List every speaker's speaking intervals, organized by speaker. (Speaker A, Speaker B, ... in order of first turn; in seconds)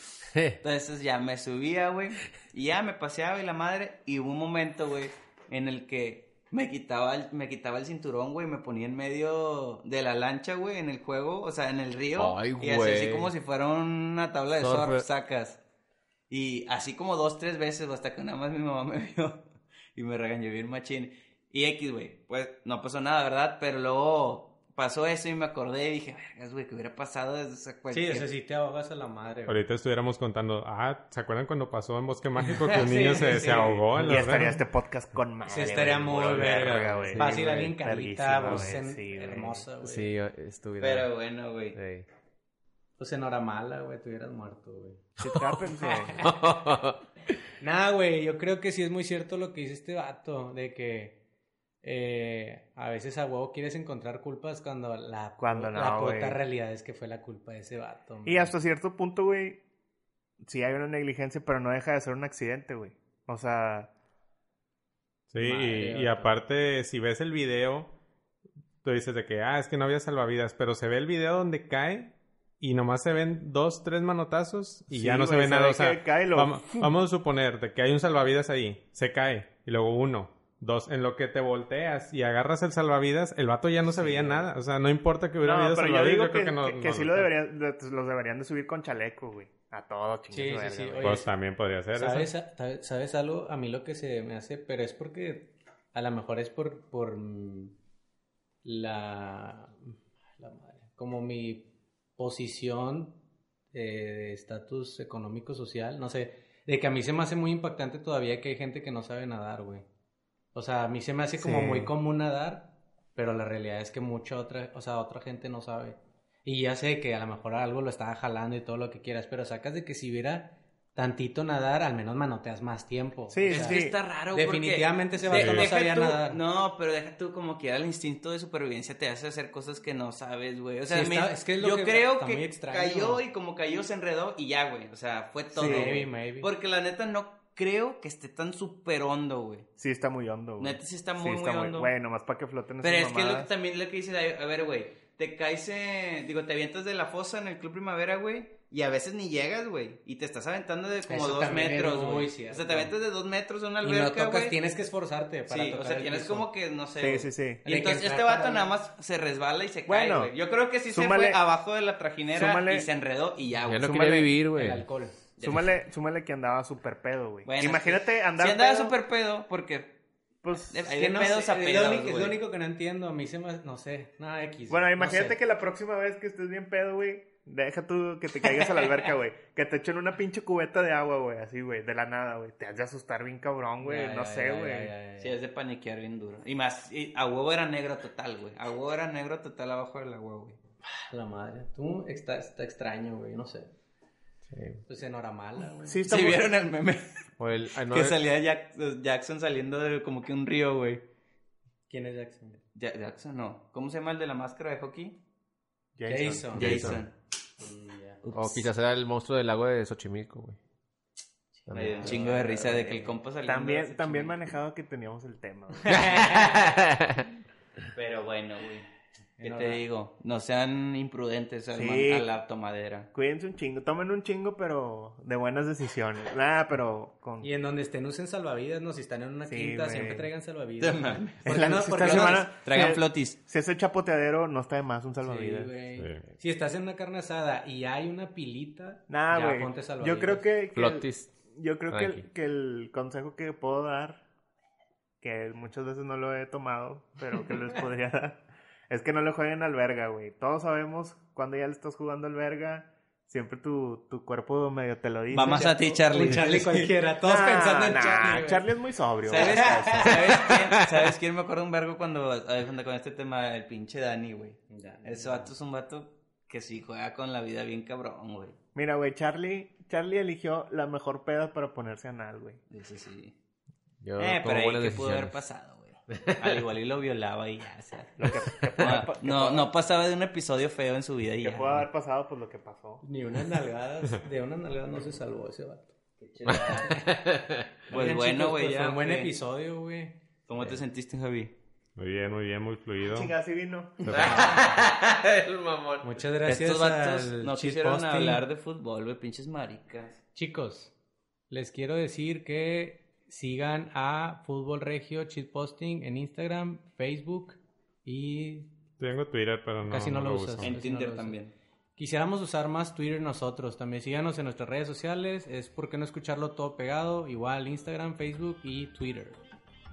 Speaker A: 0.3-0.6, 12.1-13.3, 14.6-15.0, 39.8-41.1, 41.7-42.1, 46.2-47.0, 163.7-164.9, 194.5-194.8, 197.4-198.2, 206.6-207.0, 208.3-210.6, 211.7-212.3, 216.2-217.2, 240.7-241.3, 241.9-242.2, 274.0-275.4, 276.1-276.6, 286.4-287.7, 294.1-296.1
Speaker B: 0.6-15.6, 16.3-19.4, 19.9-28.3, 40.8-41.8, 123.5-139.7, 140.6-141.9, 142.8-154.6, 155.5-164.3, 165.4-165.7, 167.4-169.9, 170.7-172.4, 185.2-190.6, 196.1-197.0, 197.9-201.0, 202.7-205.2, 206.5-207.1, 208.2-208.7, 211.7-214.4, 217.9-218.9, 219.4-223.1, 230.8-233.4, 255.3-256.9, 259.2-268.6, 272.7-273.3, 274.2-281.9, 286.2-287.0, 287.9-289.3, 290.5-291.5, 296.4-300.2, 310.6-311.5
Speaker C: 27.9-29.6, 32.4-34.2, 35.5-40.1, 43.0-45.0, 45.8-46.3, 47.6-51.2, 51.8-58.5, 65.4-66.3, 83.8-84.5, 90.3-91.3, 91.9-97.8, 98.6-103.2, 103.7-109.8, 110.5-123.8, 124.3-126.4, 130.9-133.2, 135.6-136.5, 151.1-152.9, 153.8-156.5, 157.6-158.7, 164.5-165.2, 170.9-175.4, 183.8-185.3, 190.8-193.7, 194.9-196.1, 201.9-202.6, 206.1-207.0, 207.6-208.2, 211.6-213.1, 215.8-216.6, 219.4-219.8, 227.4-232.5, 235.2-240.5, 255.4-258.6, 259.3-260.4, 264.7-265.5, 283.0-285.9, 286.7-287.1, 287.9-290.1, 294.1-294.7, 296.0-298.4, 300.3-300.9, 301.5-308.7, 309.8-311.4, 312.0-319.4
Speaker D: 29.5-34.6, 65.3-67.9, 68.8-87.3, 91.0-92.3, 125.3-125.7, 236.0-236.2, 292.0-293.3, 294.0-294.6, 309.0-310.7
Speaker E: 34.0-39.6, 45.2-46.1, 55.4-56.4, 58.2-59.6, 60.4-63.9, 74.9-76.9, 85.4-91.1, 111.4-111.9, 123.3-124.0, 135.5-136.0, 139.8-143.5, 157.0-157.6, 159.9-160.3, 160.9-161.4, 162.3-162.9, 163.8-164.3, 165.4-168.9, 170.4-170.7, 174.7-184.9, 195.8-196.5, 205.9-207.0, 213.4-216.2, 221.7-222.3, 223.1-227.5, 229.4-230.3, 231.4-235.7, 239.1-244.2, 245.2-255.7, 257.2-260.3, 268.7-272.6, 278.2-279.7, 281.4-283.0, 293.0-294.0